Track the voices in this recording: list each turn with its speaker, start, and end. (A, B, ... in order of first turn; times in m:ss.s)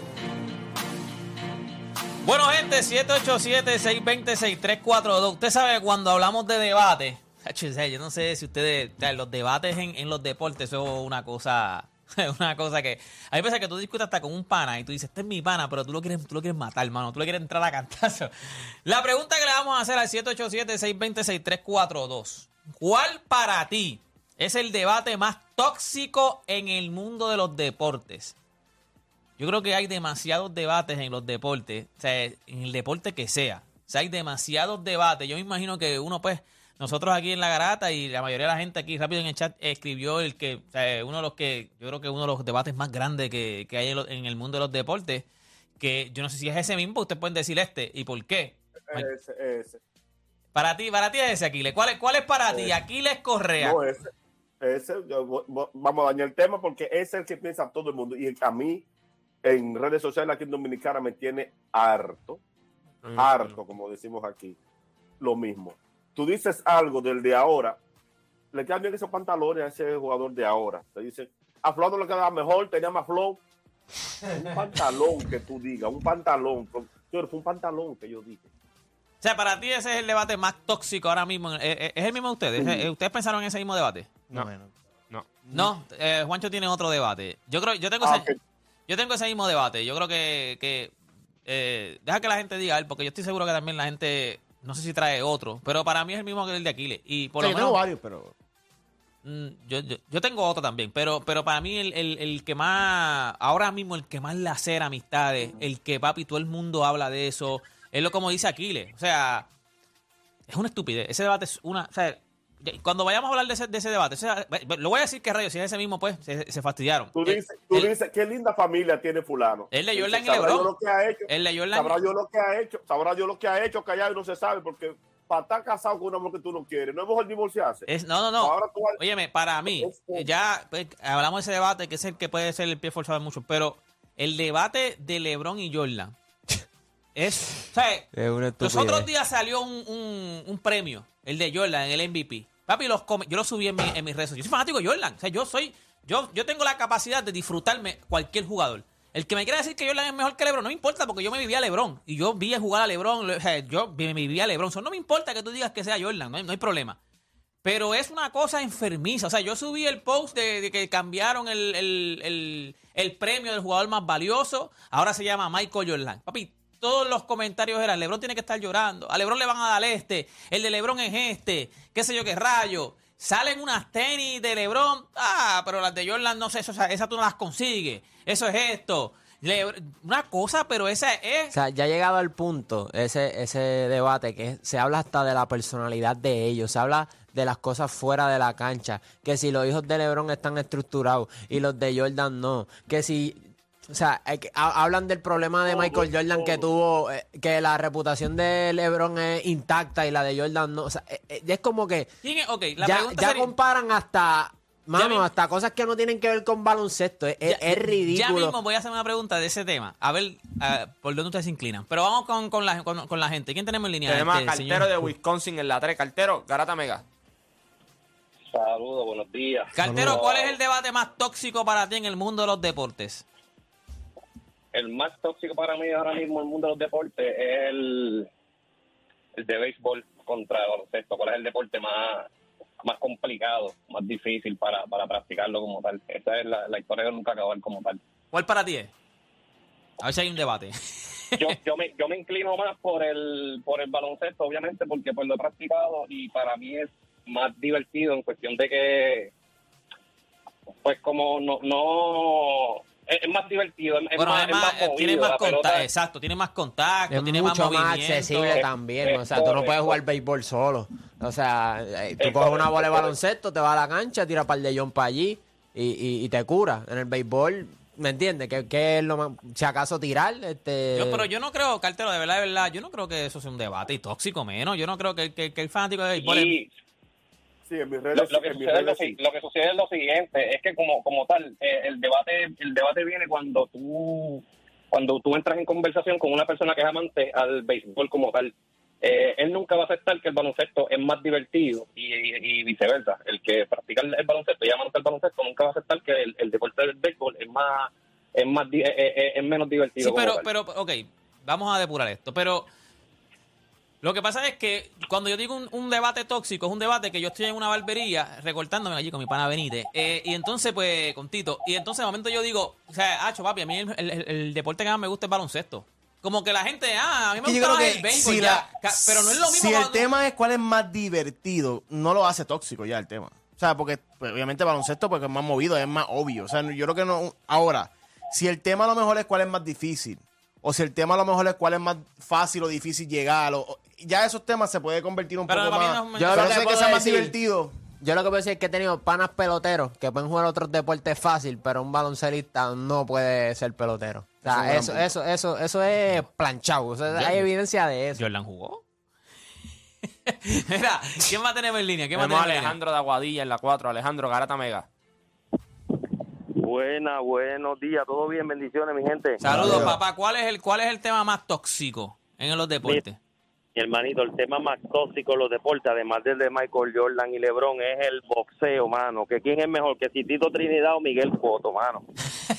0:02.2-0:18.3 A
0:18.9-0:28.4 A
0:29.4-0:45.2 A
0:45.8-0:49.1 A
0:48.9-0:49.8 B
0:50.6-0:53.8 A
0:52.5-0:52.8 B
0:53.6-0:54.1 B
0:54.6-0:58.8 B
0:59.4-1:02.4 B
1:03.2-1:04.6 B
1:05.2-1:07.8 B
1:08.5-1:13.4 B
1:14.3-1:18.5 B
1:19.2-1:24.1 A
1:24.3-1:24.7 C
1:25.5-1:28.3 A
1:28.0-1:28.4 B
1:28.9-1:30.9 A
1:31.5-1:37.8 A
1:37.4-1:38.3 C
1:39.2-1:49.5 A
1:50.5-1:57.9 A
1:57.2-2:07.9 B
1:59.7-2:00.7 A
2:01.3-2:02.0 A
2:07.9-2:16.1 A
2:08.4-2:09.0 B
2:09.7-2:10.3 B
2:17.2-2:37.0 A
2:18.1-2:19.1 D
2:37.6-3:01.6 A
3:01.5-3:22.1 D
3:15.7-3:16.6 B
3:22.2-3:23.5 A
3:22.8-3:28.6 D
3:25.0-3:25.2 A
3:27.4-3:34.9 A
3:34.1-3:37.0 E
3:38.5-3:40.6 F
3:39.7-3:43.2 A
3:39.8-3:40.2 C
3:44.7-3:48.3 F
3:49.4-3:52.3 F
3:52.8-3:58.0 F
3:58.3-3:58.9 A
4:00.0-4:01.5 A
4:01.4-4:09.3 F
4:10.8-4:15.9 F
4:14.2-4:18.6 A
4:17.1-4:31.3 D
4:18.5-4:20.0 F
4:22.2-4:23.2 F
4:31.0-4:36.6 A
4:36.2-4:36.7 F
4:37.7-4:39.2 B
4:38.1-5:00.5 F
5:00.0-5:02.7 A
5:04.0-5:20.1 A
5:17.4-5:37.7 C
5:35.5-5:36.7 A
5:36.2-5:37.3 D
5:38.0-5:48.2 D
5:44.4-5:45.0 C
5:48.2-5:48.8 A
5:50.3-5:52.8 A
5:52.2-5:54.9 E
5:56.6-5:59.4 G
5:59.4-6:03.2 A
5:59.4-6:00.0 C
5:59.6-5:59.8 D
6:03.8-6:12.1 G